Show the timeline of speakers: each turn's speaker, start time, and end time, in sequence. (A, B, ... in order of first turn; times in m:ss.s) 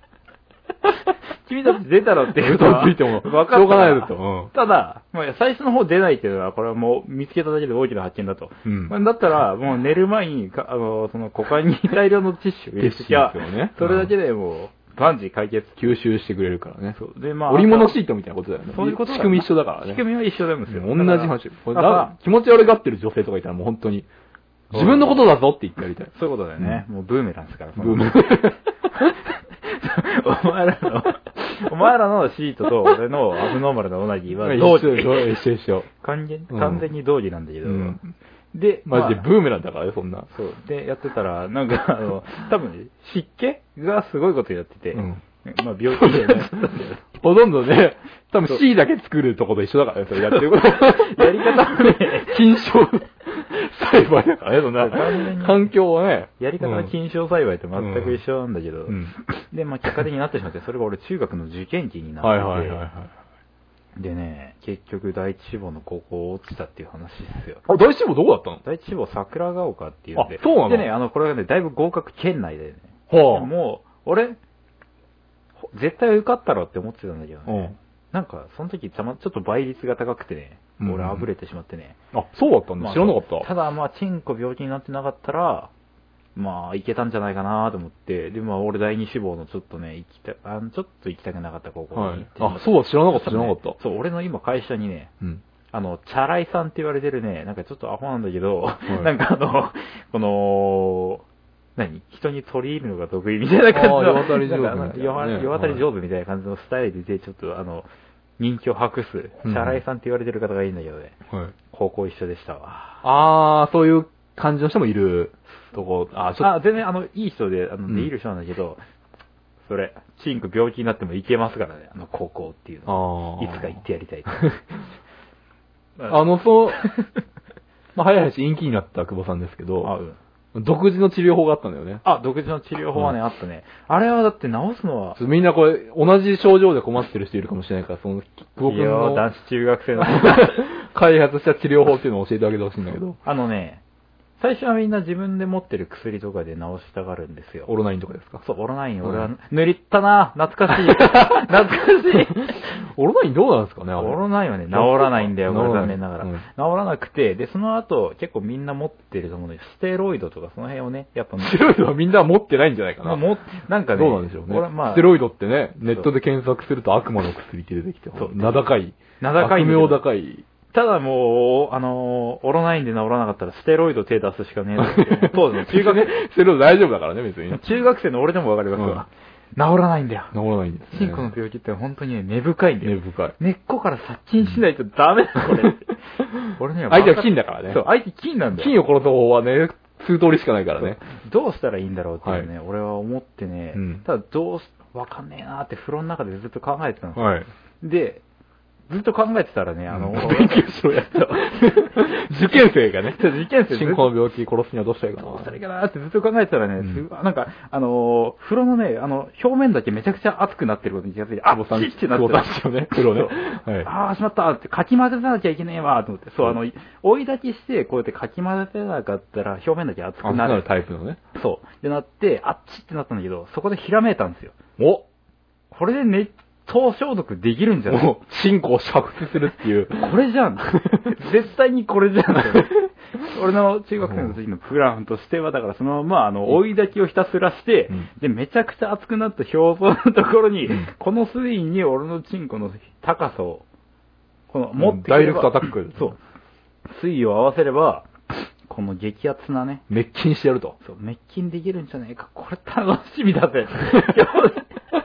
0:01.4-0:15.9 A
0:02.4-0:04.5 B
0:08.6-0:08.9 B
0:12.8-0:14.1 B
0:15.8-0:20.0 B
0:16.9-0:18.0 A
0:18.7-0:22.1 A
0:20.7-0:24.1 B
0:24.7-0:25.2 A
0:24.7-0:26.8 B
0:26.1-0:29.1 A
0:27.8-0:28.6 B
0:29.6-0:35.4 A
0:34.4-0:35.9 B
0:36.0-0:38.0 A
0:36.5-0:36.8 B
0:37.6-0:38.1 B
0:38.5-0:39.3 A
0:38.8-0:40.3 B
0:40.3-0:47.0 A
0:44.9-0:45.2 B
0:45.9-0:46.5 B
0:47.1-0:56.9 B
0:50.2-0:52.4 A
0:54.8-0:55.7 A
0:56.4-0:59.0 A
0:57.8-0:58.2 B
0:58.9-0:59.2 B
0:59.5-1:02.8 A
1:02.2-1:03.1 B
1:04.0-1:07.6 A
1:07.6-1:08.6 B
1:08.6-1:14.4 A
1:10.2-1:10.9 B
1:13.1-1:13.5 B
1:15.6-1:22.0 A
1:17.5-1:17.8 B
1:20.8-1:21.3 B
1:22.1-1:23.5 B
1:22.8-1:25.7 A
1:26.4-1:35.1 A
1:31.9-1:33.8 B
1:35.7-1:41.2 A
1:41.8-1:47.9 A
1:43.7-1:45.8 B
1:48.4-1:51.2 A
1:49.4-1:49.8 B
1:51.7-1:53.0 A
1:53.0-1:56.5 B
1:56.4-1:58.8 A
1:59.6-2:04.6 A
2:02.9-2:03.8 B
2:06.1-2:06.8 B
2:06.7-2:07.0 A
2:07.9-2:09.9 B
2:09.8-2:10.2 A
2:10.5-2:12.0 B
2:12.0-2:15.2 A
2:15.2-2:19.2 B
2:18.6-2:20.6 A
2:20.0-2:23.2 B
2:23.2-2:23.8 A
2:24.4-2:27.7 A
2:27.7-2:28.4 B
2:28.4-2:32.6 A
2:29.0-2:29.3 B
2:31.0-2:31.4 B
2:32.4-2:34.2 B
2:34.0-2:41.6 A
2:34.7-2:36.4 B
2:41.4-2:43.2 B
2:43.0-2:45.1 A
2:43.9-2:50.4 B
2:45.8-2:46.1 A
2:48.2-2:48.7 A
2:49.2-2:50.0 A
2:50.7-2:56.1 A
2:54.8-2:57.6 B
2:57.5-3:00.3 A
2:58.8-2:59.0 B
3:00.3-3:01.3 B
3:00.9-3:08.7 A
3:02.8-3:03.3 B
3:06.9-3:07.8 B
3:08.6-3:11.0 B
3:10.8-3:18.2 A
3:13.7-3:14.0 B
3:17.2-3:17.5 B
3:18.9-3:21.7 A
3:19.9-3:25.5 B
3:23.1-3:24.1 A
3:25.2-3:40.6 A
3:31.5-3:33.9 B
3:40.2-3:41.2 B
3:41.3-3:44.6 A
3:44.8-3:45.0 B
3:45.7-3:48.1 A
3:47.9-3:50.2 B
3:50.0-4:03.6 A
3:54.1-3:54.3 B
4:04.5-4:06.2 A
4:04.8-4:06.1 B
4:06.9-4:08.1 A
4:08.7-4:09.8 A
4:09.9-4:10.8 B
4:10.8-4:14.7 A